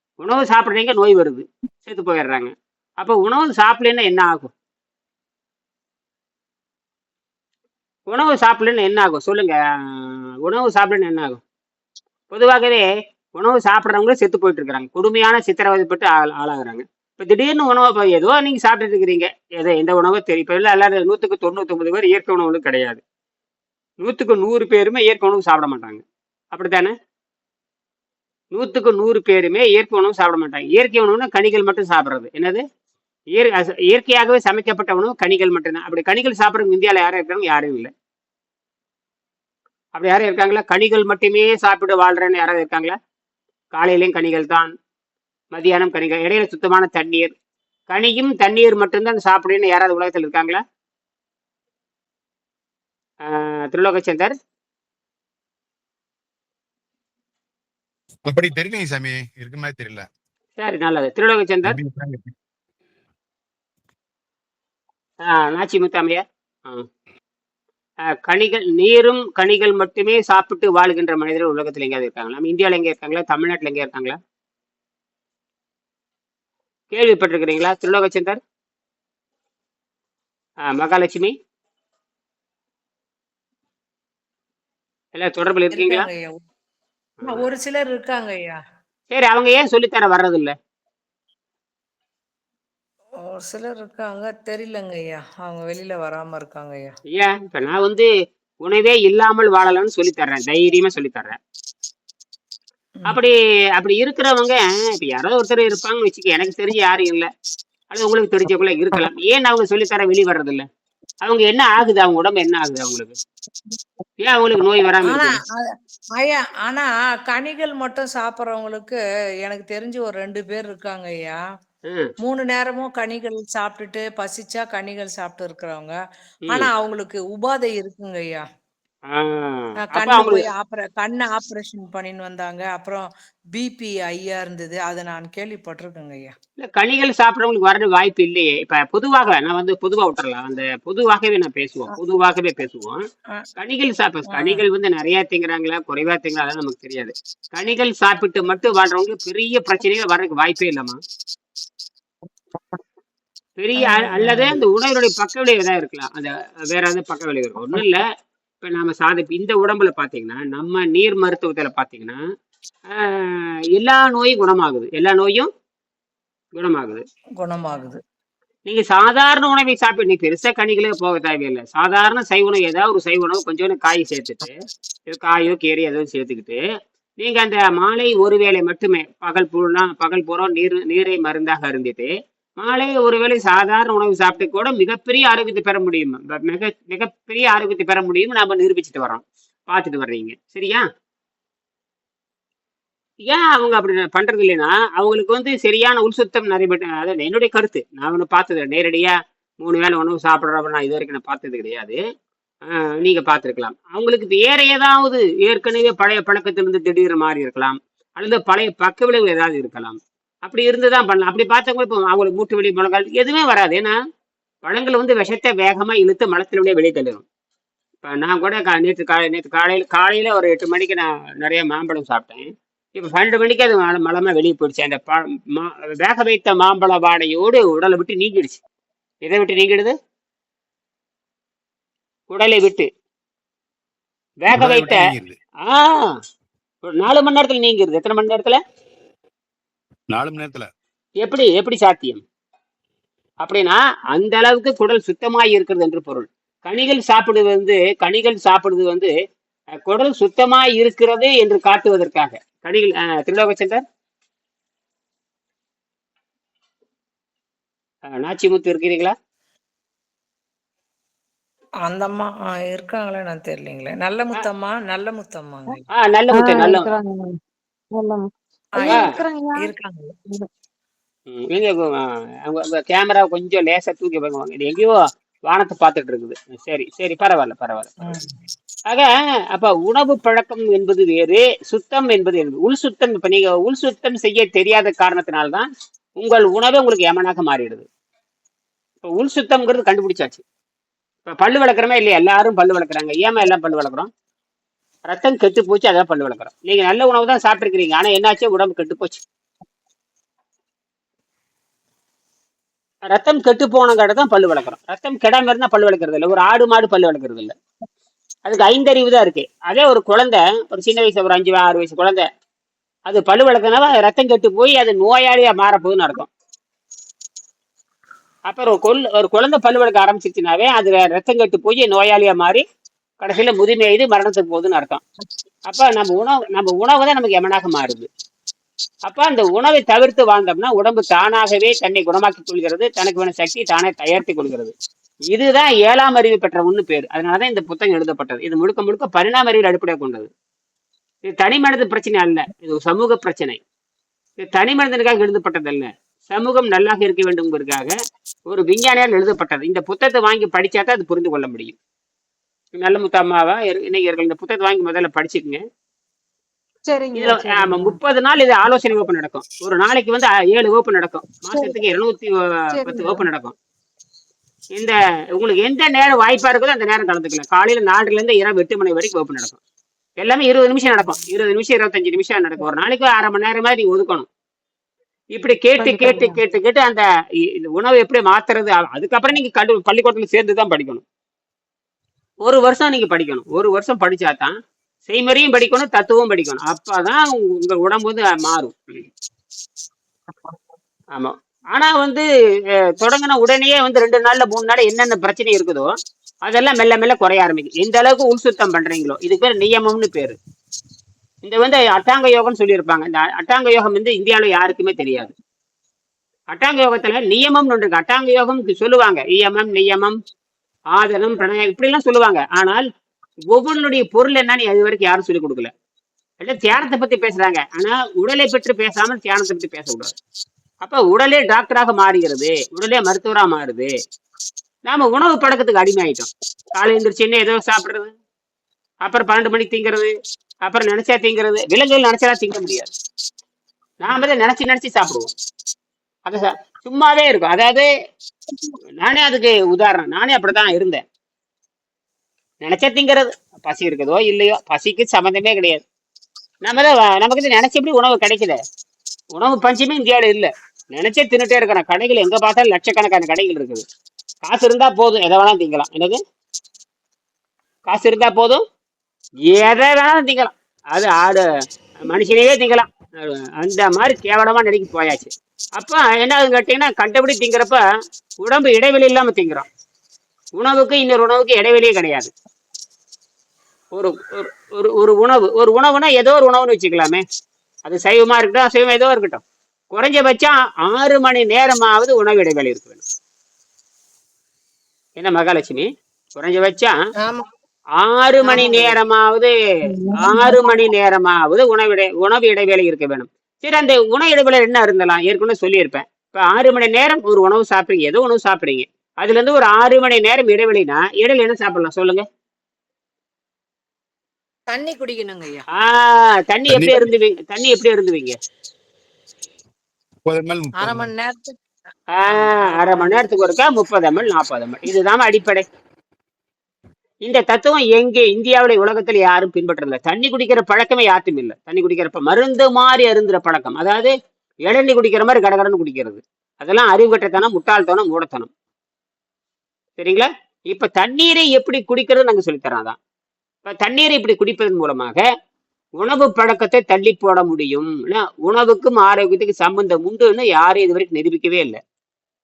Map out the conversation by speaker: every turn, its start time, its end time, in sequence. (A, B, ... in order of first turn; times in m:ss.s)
0:00.2-0:04.5 A
0:08.1-0:11.4 A
0:12.3-0:12.8 A
0:13.4-0:23.0 A
0:24.0-0:26.9 A
0:28.5-0:32.6 A
0:33.3-0:37.9 A
0:39.9-0:43.0 A
0:43.7-0:44.7 A
0:45.5-0:47.3 A
0:47.9-0:50.6 A
0:53.2-0:54.4 A
0:58.2-1:00.1 B
1:00.6-1:01.8 A
1:01.6-1:02.3 B
1:05.2-1:06.9 A
1:08.1-1:14.2 A
1:16.9-1:18.4 A
1:20.6-1:21.3 A
1:25.1-1:26.1 A
1:25.7-1:26.4 C
1:27.2-1:27.5 A
1:27.2-1:28.6 C
1:29.1-1:30.5 A
1:33.2-1:36.9 C
1:37.1-1:38.1 A
1:38.6-1:41.4 A
1:43.0-1:47.3 A
1:47.9-1:50.7 A
1:51.2-1:53.2 A
1:54.2-1:55.4 A
1:55.0-2:01.4 C
2:01.8-2:02.1 A
2:02.2-2:05.9 C
2:06.5-2:08.4 C
2:09.1-2:10.4 A
2:09.8-2:16.3 C
2:16.6-2:23.0 A
2:23.6-2:31.0 A
2:24.3-2:24.6 C
2:33.6-2:38.0 A
2:33.8-2:34.6 C
2:38.6-2:42.2 A
2:42.9-2:45.5 A
2:46.5-2:47.0 A
2:47.4-2:48.0 C
2:48.7-2:54.6 A
2:55.1-2:56.6 A
2:57.2-3:10.8 A
3:13.3-3:22.0 A
3:22.6-3:33.9 A
3:34.6-3:37.2 A
3:38.0-3:48.6 A
3:49.2-3:50.0 A
3:52.3-3:52.9 A
3:54.4-3:55.1 A
3:54.5-3:55.4 B
3:55.6-3:56.1 A
3:56.8-3:58.6 A
4:00.1-4:00.7 B
4:01.2-4:02.2 A
4:03.4-4:09.1 A
4:09.7-4:13.8 A
4:18.1-4:19.1 A
4:21.8-4:25.8 C
4:25.9-4:26.9 A
4:26.3-4:27.4 D
4:27.9-4:29.7 D
4:28.7-4:30.1 C
4:31.3-4:38.2 A
4:38.9-4:47.9 A
4:49.0-4:50.4 A
4:51.2-4:54.1 A
4:55.1-4:59.2 A
5:03.1-5:07.5 A
5:08.4-5:12.3 A
5:13.1-5:16.3 A
5:18.5-5:22.6 A
5:23.2-5:25.0 A
5:25.7-5:28.1 A
5:29.1-5:34.7 A
5:35.3-5:40.3 A
5:41.2-5:43.6 A
5:44.4-5:47.9 A
5:48.5-5:51.8 A
5:52.8-5:55.6 A
5:56.9-5:58.0 D
5:57.1-6:03.5 A
6:02.7-6:03.2 D
6:04.7-6:09.6 A
6:10.2-6:14.3 A
6:15.3-6:21.0 A
6:15.8-6:16.4 D
6:22.4-6:24.5 A
6:25.1-6:29.0 A
6:31.1-6:32.2 A
6:33.0-6:35.9 A
6:36.4-6:40.4 A
6:41.4-6:45.3 A
6:46.5-6:50.2 A
6:50.9-6:52.8 A
6:53.5-6:55.7 A
6:56.4-7:00.2 A
7:00.8-7:03.9 A
7:04.9-7:08.1 A
7:09.0-7:10.1 A
7:10.6-7:12.9 A
7:14.0-7:15.3 A
7:16.2-7:17.9 A
7:19.0-7:21.0 A
7:22.6-7:25.8 A
7:26.6-7:28.6 A
7:29.3-7:33.8 A
7:34.4-7:36.2 A
7:37.9-7:38.6 A
7:39.4-7:41.4 A
7:42.0-7:47.8 A
7:48.4-7:49.7 A
7:50.6-7:52.3 A
7:53.9-7:57.2 A
7:57.8-8:03.0 A
8:05.2-8:06.9 A
8:08.0-8:09.5 A
8:08.5-8:08.9 D
8:10.2-8:22.2 A
8:10.2-8:10.6 D
8:24.7-8:25.6 C
8:25.7-8:28.4 A
8:26.7-8:27.0 B
8:30.2-8:31.1 B
8:30.8-8:31.6 C
8:32.1-8:35.6 A
8:32.3-8:32.9 C
8:37.2-8:44.1 A
8:44.7-8:48.5 A
8:50.0-8:53.0 A
8:53.6-8:55.2 A
8:56.0-9:01.8 A